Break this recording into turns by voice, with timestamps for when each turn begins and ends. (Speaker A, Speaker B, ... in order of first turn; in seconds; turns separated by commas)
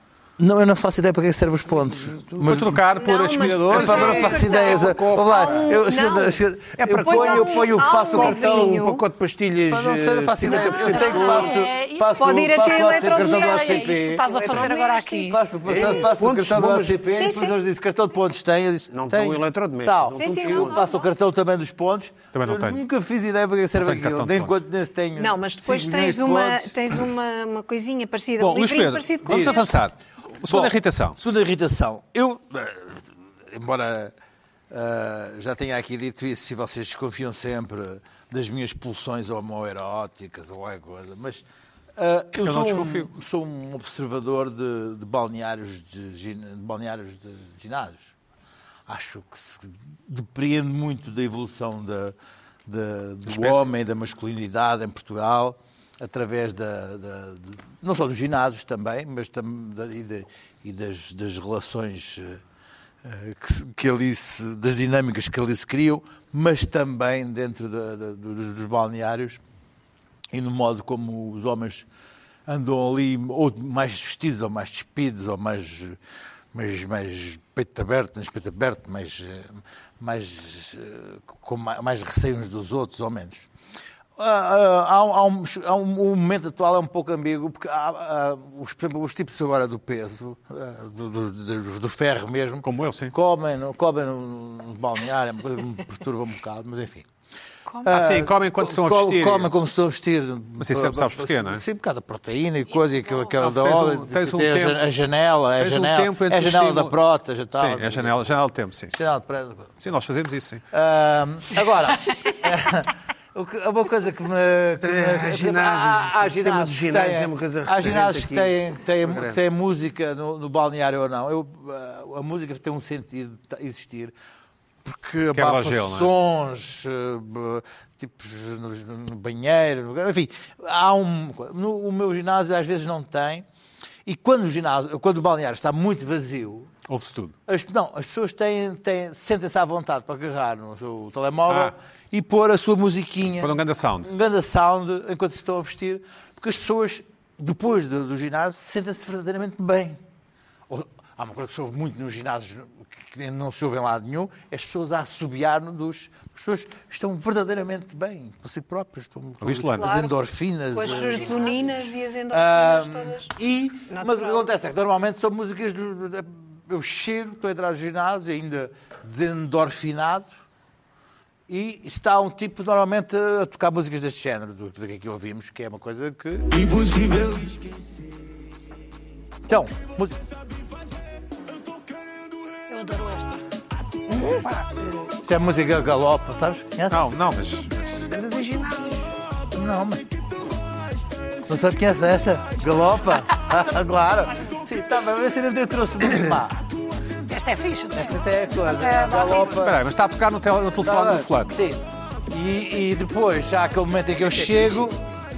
Speaker A: 0.4-2.8, Speaker B: 2.4-4.2, Speaker C: 2.8-6.4, Speaker A: 3.7-8.8, Speaker D: 3.7-5.8, Speaker D: 6.8-11.6, Speaker C: 7.0-9.0, Speaker A: 9.7-14.7, Speaker E: 10.6-15.4, Speaker C: 10.7-11.6, Speaker C: 12.1-15.3, Speaker A: 15.3-26.8, Speaker D: 15.6-17.1, Speaker C: 17.1-17.5, Speaker D: 18.9-20.8, Speaker C: 20.1-20.9, Speaker B: 22.3-22.8, Speaker B: 23.8-24.6, Speaker C: 25.2-29.8, Speaker B: 28.4-31.2, Speaker A: 29.2-29.6, Speaker A: 30.4-34.1, Speaker A: 34.7-41.4, Speaker A: 42.0-48.1, Speaker B: 42.4-43.1, Speaker A: 48.9-62.4, Speaker B: 53.2-53.7, Speaker A: 63.0-69.4, Speaker A: 70.3-71.9, Speaker A: 72.5-76.0, Speaker A: 76.5-83.5, Speaker A: 84.2-97.1, Speaker B: 92.6-93.1, Speaker C: 97.7-97.9, Speaker A: 97.8-108.3, Speaker B: 97.9-99.5, Speaker B: 100.6-101.6, Speaker E: 102.7-103.3, Speaker B: 103.4-104.8, Speaker B: 105.6-107.0, Speaker B: 107.6-108.9, Speaker A: 108.9-109.7, Speaker B: 109.8-110.6, Speaker A: 110.7-124.1, Speaker D: 114.8-119.4, Speaker A: 124.8-133.4, Speaker B: 125.3-126.1, Speaker A: 134.0-136.7, Speaker B: 136.9-137.3, Speaker A: 137.5-150.0, Speaker B: 141.5-141.7, Speaker B: 143.4-144.1, Speaker A: 150.7-170.3, Speaker B: 159.4-160.0, Speaker C: 159.8-160.1, Speaker C: 160.7-163.3, Speaker C: 163.9-164.4, Speaker A: 171.5-177.6, Speaker A: 179.5-180.2, Speaker E: 182.7-183.4, Speaker D: 184.1-185.1, Speaker A: 185.2-187.1, Speaker B: 186.9-188.1, Speaker D: 188.1-189.1, Speaker A: 189.5-190.1, Speaker A: 191.4-196.6, Speaker E: 197.3-199.6, Speaker A: 197.9-199.8, Speaker B: 199.5-201.6, Speaker A: 200.8-205.0